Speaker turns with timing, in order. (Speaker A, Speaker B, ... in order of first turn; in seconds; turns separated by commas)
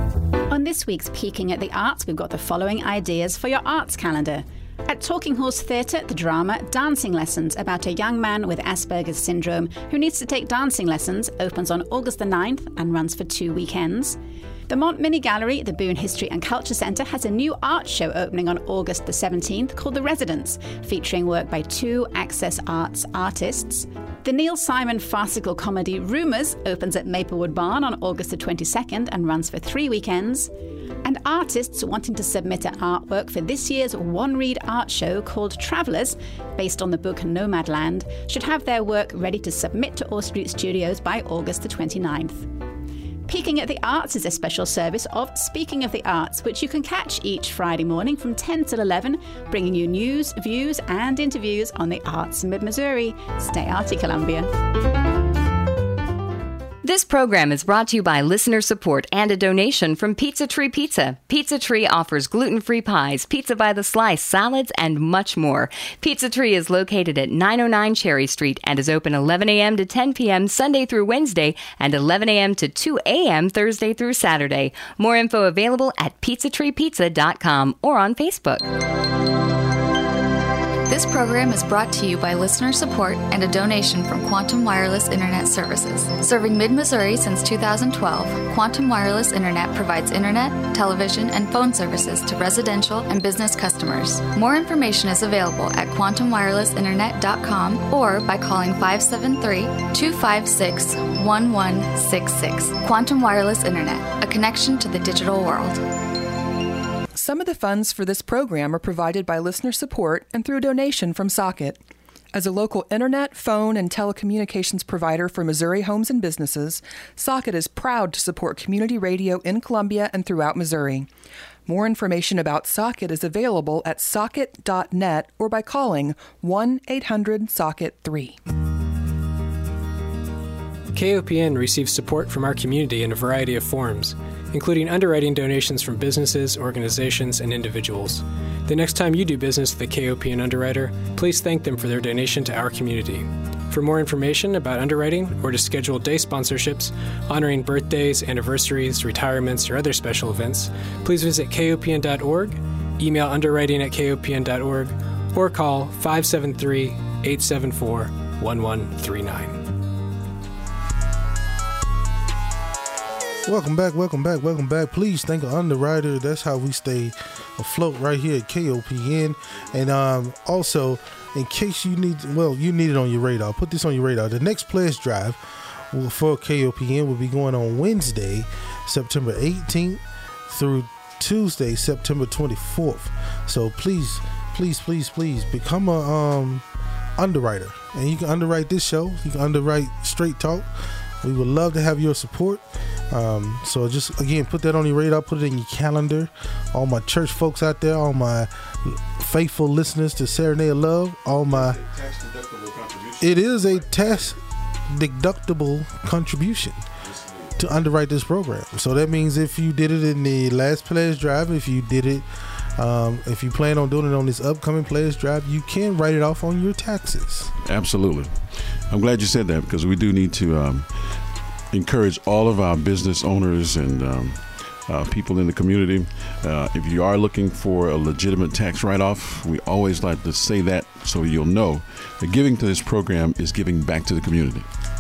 Speaker A: 0.5-14.2, Speaker A: 14.7-30.5, Speaker A: 31.0-42.5, Speaker A: 43.3-54.5, Speaker B: 56.8-78.6, Speaker C: 80.9-105.8, Speaker D: 107.1-111.8, Speaker D: 112.3-121.1, Speaker D: 121.7-128.4, Speaker E: 130.9-159.6, Speaker F: 163.4-175.4, Speaker F: 175.9-186.6, Speaker F: 187.2-190.7, Speaker F: 191.2-201.8, Speaker G: 201.5-204.3, Speaker F: 203.2-204.4, Speaker F: 204.9-206.8, Speaker G: 207.0-207.5, Speaker F: 207.6-212.2, Speaker F: 212.8-217.5, Speaker G: 217.6-220.9, Speaker G: 221.7-234.7